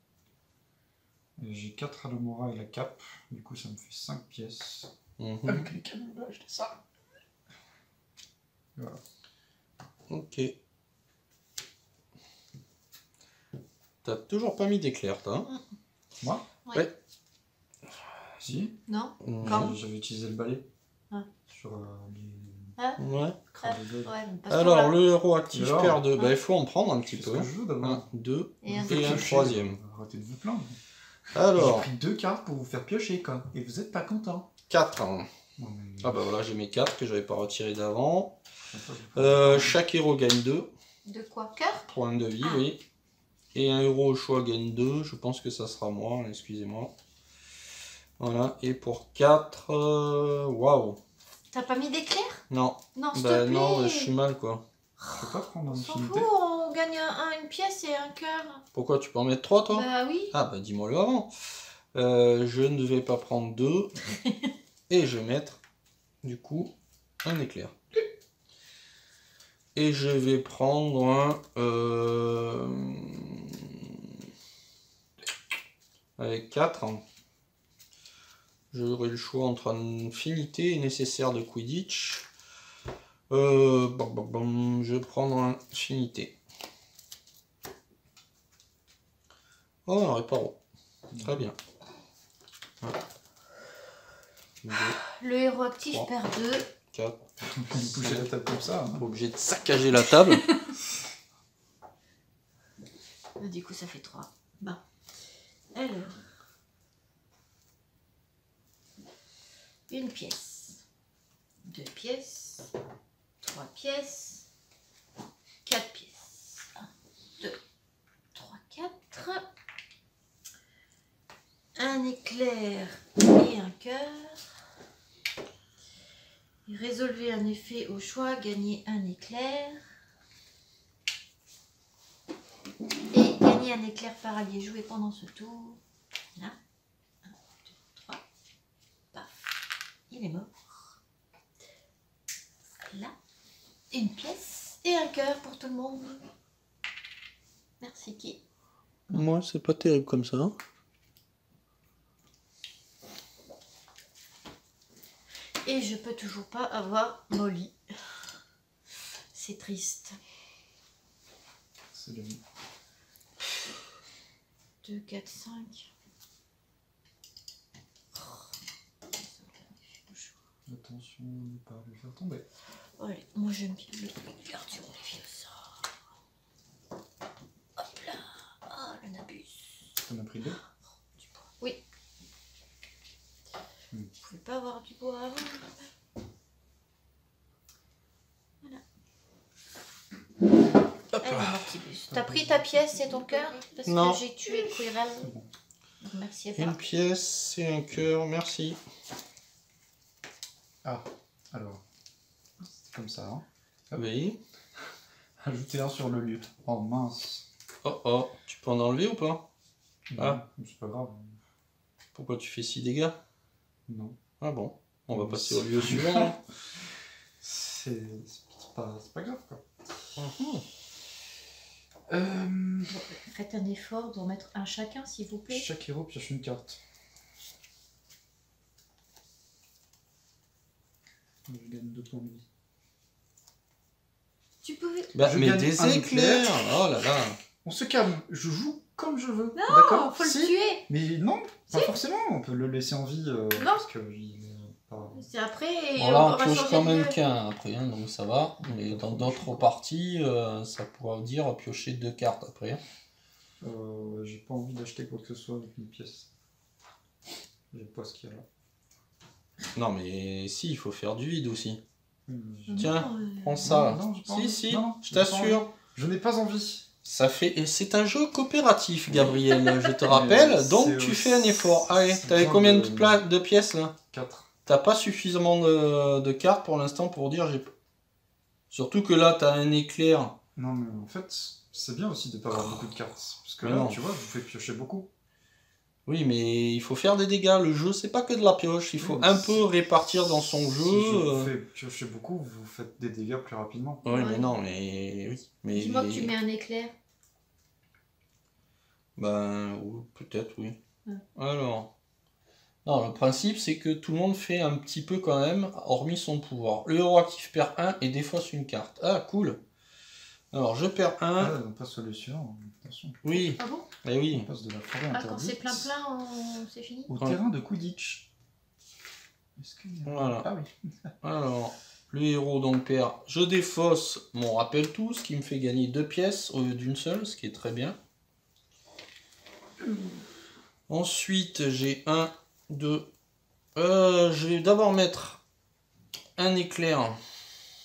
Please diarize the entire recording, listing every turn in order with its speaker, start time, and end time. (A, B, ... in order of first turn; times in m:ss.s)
0:01.4-0:04.9 A
0:05.2-0:05.7 B
0:05.5-0:06.8 A
0:08.8-0:09.0 A
0:10.1-0:10.6 B
0:14.0-0:15.5 B
0:16.2-0:16.5 A
0:18.4-0:18.8 A
0:18.9-0:19.8 C
0:19.2-0:19.8 B
0:19.4-0:20.7 A
0:21.5-0:22.8 A
0:23.0-0:23.4 B
0:23.5-0:24.2 A
0:23.6-0:25.0 C
0:24.5-0:29.8 B
0:25.5-0:26.1 A
0:27.0-0:28.1 A
0:28.6-0:29.4 C
0:28.7-0:30.8 A
0:31.3-0:31.9 B
0:31.5-0:34.5 A
0:34.7-0:35.3 B
0:35.6-0:36.3 A
0:36.0-0:38.4 B
0:38.7-0:39.8 A
0:39.2-0:40.7 B
0:41.0-0:41.9 C
0:41.9-0:42.8 B
0:43.5-0:46.9 B
0:48.2-0:51.0 B
0:51.5-0:52.4 C
0:52.5-0:54.6 B
0:53.0-0:54.1 C
0:55.0-0:58.6 C
0:55.1-0:56.3 A
0:58.7-1:01.3 B
0:59.7-1:00.4 C
1:01.9-1:04.0 B
1:04.9-1:05.6 B
1:06.2-1:07.8 B
1:09.8-1:14.1 B
1:16.2-1:17.0 B
1:18.7-1:22.3 B
1:23.3-1:26.4 B
1:29.9-1:30.6 B
1:31.1-1:31.5 A
1:31.2-1:31.6 B
1:34.6-1:35.0 B
1:35.0-1:36.7 C
1:36.9-1:38.4 B
1:37.4-1:39.1 A
1:38.9-1:40.6 B
1:43.4-1:44.8 C
1:45.7-1:46.3 C
1:49.9-1:50.8 C
1:51.6-1:52.7 C
1:53.4-1:54.5 C
1:55.6-1:57.6 C
1:58.3-1:59.4 C
2:01.8-2:04.5 C
2:06.7-2:09.8 C
2:13.1-2:15.8 C
2:17.2-2:18.2 C
2:19.1-2:21.0 C
2:23.9-2:26.2 C
2:27.8-2:28.4 C
2:29.1-2:30.6 B
2:35.6-2:38.2 C
2:39.3-2:40.2 C
2:41.9-2:42.4 A
2:44.8-2:45.9 C
2:48.2-2:48.5 C
2:49.0-2:50.4 C
2:50.7-2:52.5 A
2:53.0-2:55.8 C
2:57.8-2:59.8 C
3:00.0-3:00.6 A
3:04.2-3:05.9 C
3:11.1-3:11.7 B
3:11.2-3:15.3 C
3:12.1-3:13.2 A
3:13.8-3:14.6 B
3:15.2-3:15.5 A
3:16.0-3:16.8 C
3:16.6-3:18.8 B
3:20.8-3:21.8 A
3:22.6-3:24.0 A
3:24.0-3:24.4 B
3:25.4-3:27.5 A
3:27.8-3:29.5 B
3:30.1-3:31.4 A
3:32.2-3:33.2 B
3:33.9-3:34.2 A
3:34.4-3:36.4 B
3:35.1-3:36.4 A
3:37.4-3:39.6 A
3:40.2-3:40.6 B
3:42.1-3:43.0 A
3:42.9-3:45.7 C
3:45.5-3:46.8 A
3:51.5-3:52.5 A
3:54.6-3:55.1 C
3:55.2-3:57.4 B
3:55.2-3:56.6 A
3:57.6-4:05.3 A
3:59.6-4:00.9 C
4:01.7-4:02.0 C
4:03.6-4:03.9 C
4:05.2-4:07.2 C
4:06.0-4:12.8 B
4:08.6-4:09.7 A
4:13.6-4:16.3 A
4:17.7-4:18.5 A
4:19.8-4:21.8 B
4:22.3-4:23.1 A
4:22.7-4:23.6 C
4:22.8-4:25.7 B
4:23.6-4:26.9 A
4:27.0-4:34.0 B
4:30.0-4:33.2 A
4:34.1-4:34.5 A
4:34.7-4:37.7 B
4:38.7-4:40.4 B
4:40.6-4:45.1 A
4:42.5-4:42.9 B
4:43.6-4:44.0 B
4:46.1-4:51.5 B
4:49.0-4:49.7 A
4:50.8-4:54.1 A
4:54.0-4:56.3 B
4:54.1-4:54.6 C
4:55.7-4:56.9 C
4:59.2-5:00.8 B
5:01.4-5:01.9 B
5:02.8-5:09.6 B
5:10.5-5:11.5 B
5:11.4-5:13.2 A
5:13.2-5:14.5 B
5:13.6-5:13.9 C
5:14.3-5:15.9 A
5:15.1-5:17.1 C
5:17.1-5:18.3 A
5:19.6-5:21.1 A
5:20.1-5:20.5 B
5:21.2-5:28.0 B
5:29.8-5:30.2 A
5:30.9-5:33.1 B
5:33.8-5:35.4 B
5:36.4-5:37.2 B